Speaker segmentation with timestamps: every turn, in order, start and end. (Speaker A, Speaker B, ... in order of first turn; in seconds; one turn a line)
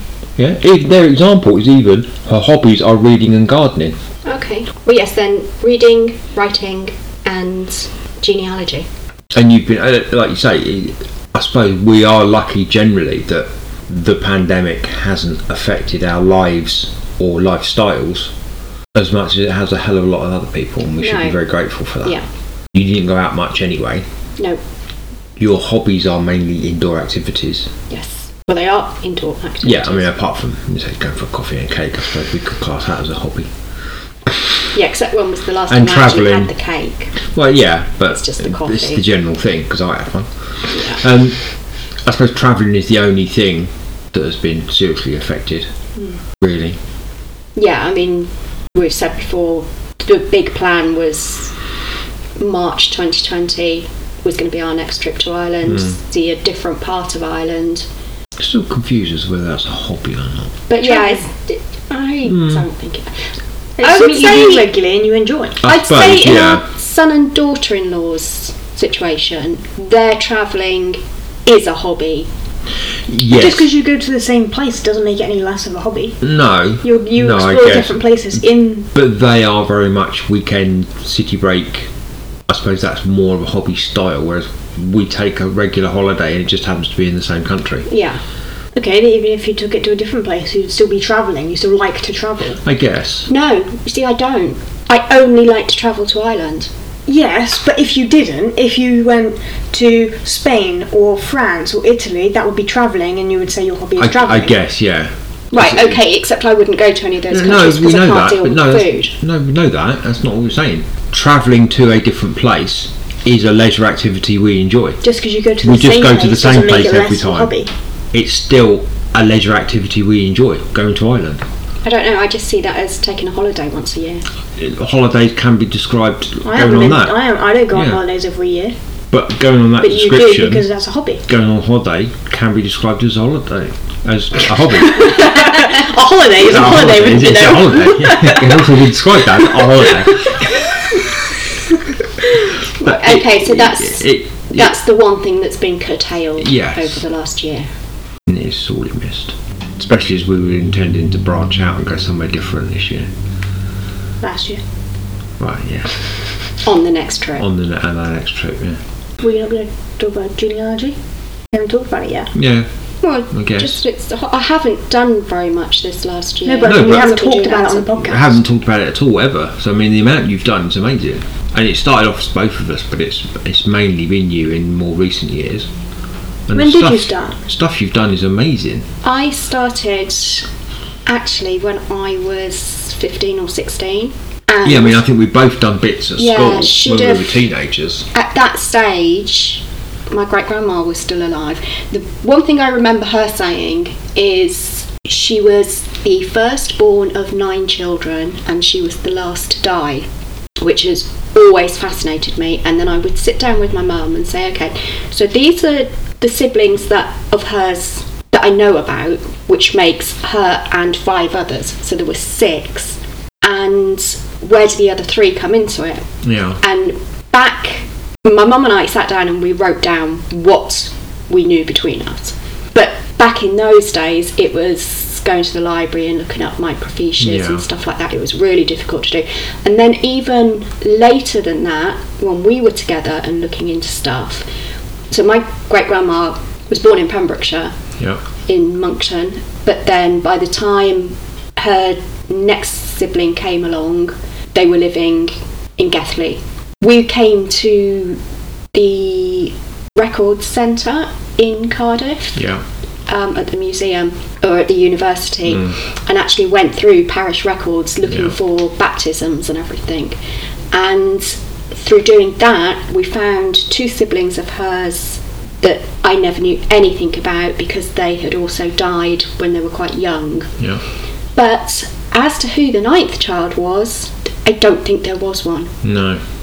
Speaker A: 0.4-4.0
Speaker B: 4.2-8.9
Speaker A: 9.3-18.3
Speaker A: 18.9-22.2
Speaker B: 21.0-21.4
Speaker A: 22.7-24.1
Speaker A: 25.4-27.7
Speaker B: 27.9-30.1
Speaker A: 29.6-33.5
Speaker B: 34.7-37.2
Speaker A: 35.7-36.5
Speaker A: 37.2-41.5
Speaker B: 38.1-39.0
Speaker B: 40.7-41.0
Speaker A: 42.0-45.7
Speaker A: 46.4-46.8
Speaker B: 47.6-51.5
Speaker B: 52.4-57.9
Speaker A: 55.7-55.9
Speaker A: 58.4-60.6
Speaker B: 60.7-63.2
Speaker C: 60.8-61.2
Speaker A: 62.3-62.6
Speaker C: 63.8-65.6
Speaker B: 63.8-64.7
Speaker A: 65.6-66.7
Speaker B: 65.6-72.3
Speaker A: 73.1-73.7
Speaker C: 73.3-76.2
Speaker A: 76.2-78.0
Speaker C: 76.8-78.9
Speaker A: 78.9-81.9
Speaker A: 82.5-87.9
Speaker B: 87.9-88.2
Speaker C: 88.8-92.6
Speaker A: 92.7-93.3
Speaker B: 93.3-96.7
Speaker C: 97.1-104.6
Speaker A: 104.0-106.0
Speaker B: 105.5-109.1
Speaker A: 107.3-115.0
Speaker C: 115.0-117.7
Speaker A: 115.6-117.5
Speaker A: 118.1-121.4
Speaker B: 121.8-124.3
Speaker A: 124.6-127.2
Speaker C: 126.5-128.8
Speaker A: 127.7-128.0
Speaker A: 129.1-130.7
Speaker C: 129.8-131.2
Speaker A: 131.3-135.8
Speaker C: 134.9-138.7
Speaker A: 136.3-140.6
Speaker C: 139.4-140.3
Speaker B: 142.8-147.7
Speaker A: 142.8-144.8
Speaker A: 146.4-147.0
Speaker A: 148.3-153.1
Speaker C: 154.2-154.6
Speaker A: 155.4-156.0
Speaker B: 156.6-157.5
Speaker A: 157.4-158.8
Speaker C: 159.2-161.0
Speaker C: 161.5-162.3
Speaker A: 162.3-162.7
Speaker B: 163.0-168.0
Speaker A: 163.3-163.8
Speaker C: 166.5-168.4
Speaker A: 166.7-167.1
Speaker A: 168.0-175.7
Speaker A: 176.5-178.9
Speaker C: 176.5-177.4
Speaker B: 179.0-180.5
Speaker B: 181.1-185.0
Speaker A: 184.6-188.1
Speaker B: 186.2-187.4
Speaker B: 188.1-200.1
Speaker B: 200.6-216.1
Speaker A: 216.2-216.6
Speaker B: 216.6-234.5
Speaker A: 227.2-227.7
Speaker B: 235.1-237.8
Speaker B: 238.5-248.2
Speaker B: 248.7-252.5
Speaker A: 252.3-252.6
Speaker B: 253.1-260.2
Speaker A: 258.1-258.4
Speaker B: 260.7-270.6
Speaker B: 271.4-275.8
Speaker A: 275.8-276.2